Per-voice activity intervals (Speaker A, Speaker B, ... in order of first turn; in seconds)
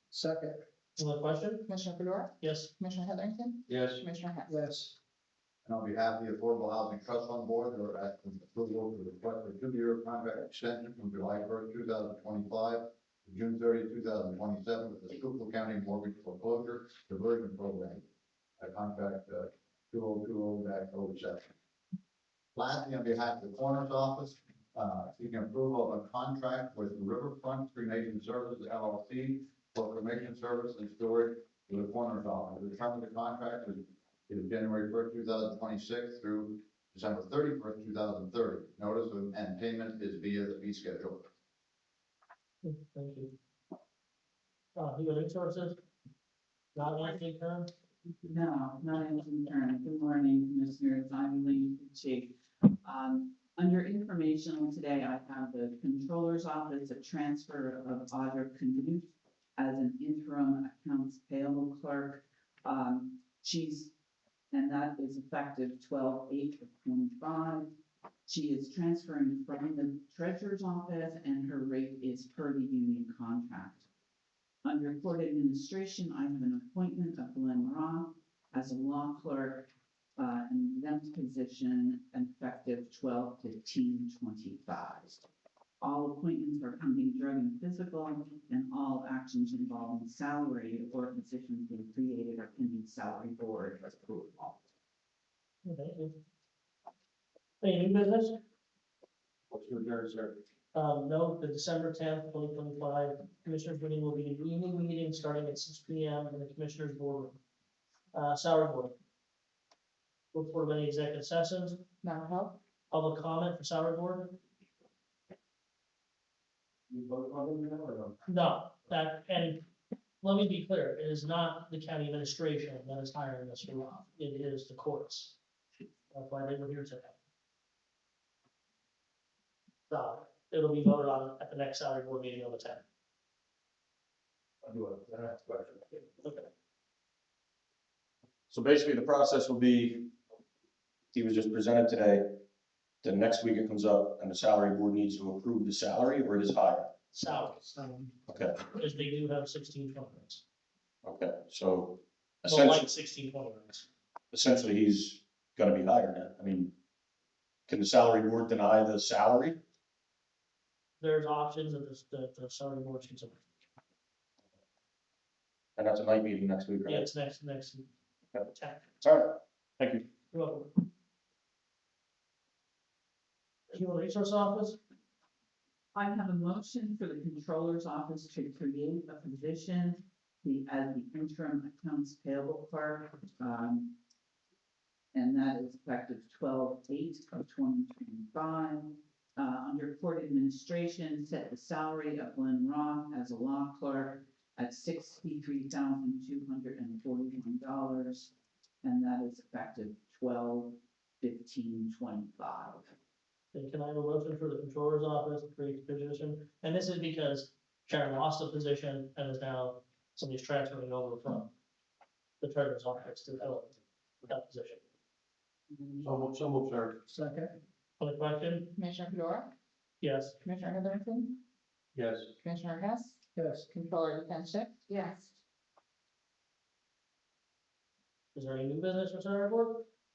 Speaker A: 0.1-0.6, 4.5-4.9, 147.1-148.1, 217.1-217.6, 223.3-223.7
Speaker B: 1.0-1.7, 2.4-2.7, 42.6-43.4, 44.8-45.8, 46.7-47.7, 95.6-96.2, 97.6-98.4, 100.7-107.4, 108.1-108.9, 110.3-111.8, 112.9-114.4, 118.2-119.6, 120.2-125.4, 126.1-127.1, 129.9-132.8, 136.2-136.5, 147.2-147.7, 148.7-150.4, 152.4-153.9, 161.0-163.4, 166.8-167.9, 168.5-168.9, 170.3-170.8, 173.7-174.8, 203.5-211.5, 212.4-214.8, 218.0-218.7, 220.0-220.3, 228.3-229.8
Speaker C: 1.7-4.5, 112.0-112.6, 218.8-219.5, 220.4-221.4, 222.4-225.4
Speaker D: 3.7-4.0, 99.7-100.2, 116.9-118.1, 216.0-217.0, 221.9-222.3
Speaker E: 5.6-18.1, 18.6-21.5, 22.5-41.2
Speaker F: 48.2-63.9, 64.5-73.9, 74.6-85.2, 85.8-94.6, 175.9-183.9, 185.1-198.3, 198.8-202.9
Speaker G: 134.8-135.7, 138.5-140.1, 141.1-142.4, 143.0-147.0, 148.3-148.7, 151.0-152.9, 154.3-156.7, 157.7-159.6, 165.8-167.1, 169.0-170.1